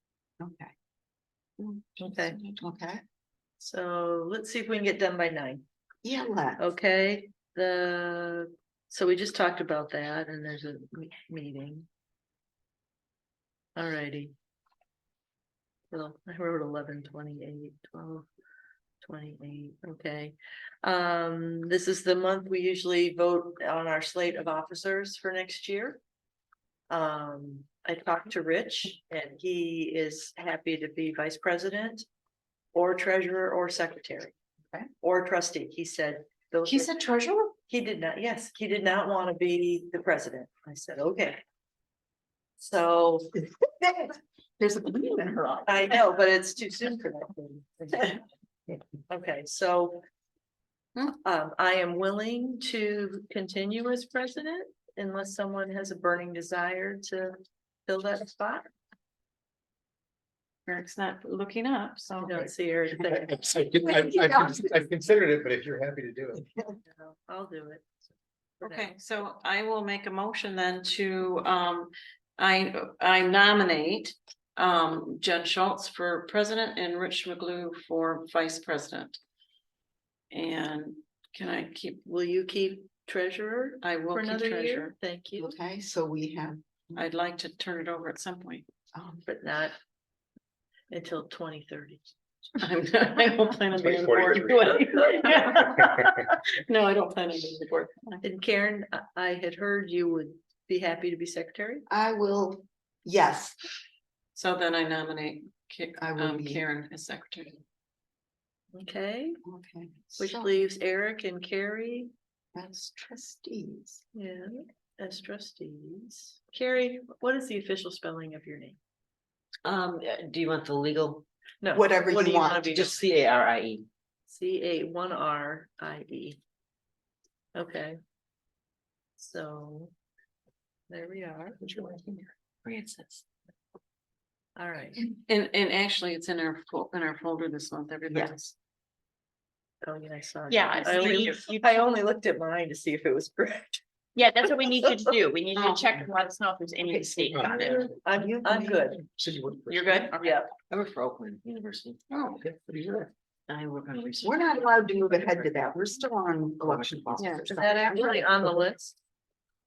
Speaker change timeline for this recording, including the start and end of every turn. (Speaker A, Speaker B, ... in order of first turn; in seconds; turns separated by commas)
Speaker A: 0.4-0.7, Speaker B: 1.6-2.6, Speaker C: 2.0-2.4, Speaker A: 2.6-3.0, Speaker C: 3.6-5.7, Speaker A: 6.0-6.7, Speaker C: 6.6-11.9, Speaker C: 13.8-14.3, Speaker C: 15.9-18.3, Speaker C: 19.0-26.0, Speaker C: 26.9-32.1, Speaker C: 32.7-34.4, Speaker C: 35.0-37.0, Speaker C: 37.7-41.4, Speaker C: 42.6-43.3, Speaker A: 43.4-46.0, Speaker C: 45.7-48.2, Speaker C: 49.1-50.0, Speaker C: 51.2-58.7, Speaker B: 60.7-62.3, Speaker C: 62.1-63.4, Speaker D: 63.1-66.5, Speaker A: 63.9-64.7, Speaker C: 66.9-67.9, Speaker C: 68.6-68.9, Speaker B: 68.6-79.2, Speaker B: 80.3-82.0, Speaker C: 82.1-85.6, Speaker B: 83.8-84.9, Speaker A: 85.4-87.0, Speaker B: 87.0-88.7, Speaker A: 88.9-89.2, Speaker C: 89.3-89.8, Speaker C: 90.9-92.0, Speaker B: 92.6-98.2, Speaker D: 93.7-94.8, Speaker D: 95.7-96.1, Speaker C: 98.2-101.8, Speaker A: 101.9-103.6, Speaker B: 104.3-107.6, Speaker A: 106.0-106.7, Speaker C: 108.7-109.4, Speaker A: 109.5-110.5, Speaker C: 110.2-112.1, Speaker A: 112.5-114.0, Speaker C: 114.1-118.8, Speaker E: 119.6-121.2, Speaker C: 121.6-123.1, Speaker A: 121.7-122.7, Speaker E: 122.7-123.9, Speaker C: 124.3-126.4, Speaker C: 127.5-128.0, Speaker C: 129.2-129.9, Speaker C: 130.9-131.6, Speaker D: 131.8-132.3, Speaker B: 132.7-133.2, Speaker C: 134.6-135.0, Speaker B: 135.3-138.5, Speaker A: 138.1-138.3, Speaker C: 139.8-143.8, Speaker F: 140.5-141.8, Speaker F: 144.2-147.8, Speaker C: 144.7-144.9, Speaker A: 145.6-145.8, Speaker A: 146.8-147.3, Speaker D: 147.3-147.9, Speaker C: 147.4-149.0, Speaker A: 148.1-149.0, Speaker D: 149.2-150.1, Speaker F: 149.7-150.4, Speaker C: 150.2-150.5, Speaker E: 150.7-152.1, Speaker B: 152.1-152.4, Speaker D: 152.3-153.1, Speaker E: 153.5-155.6, Speaker A: 154.2-158.5, Speaker E: 156.6-157.8, Speaker B: 157.2-157.4, Speaker C: 157.5-159.0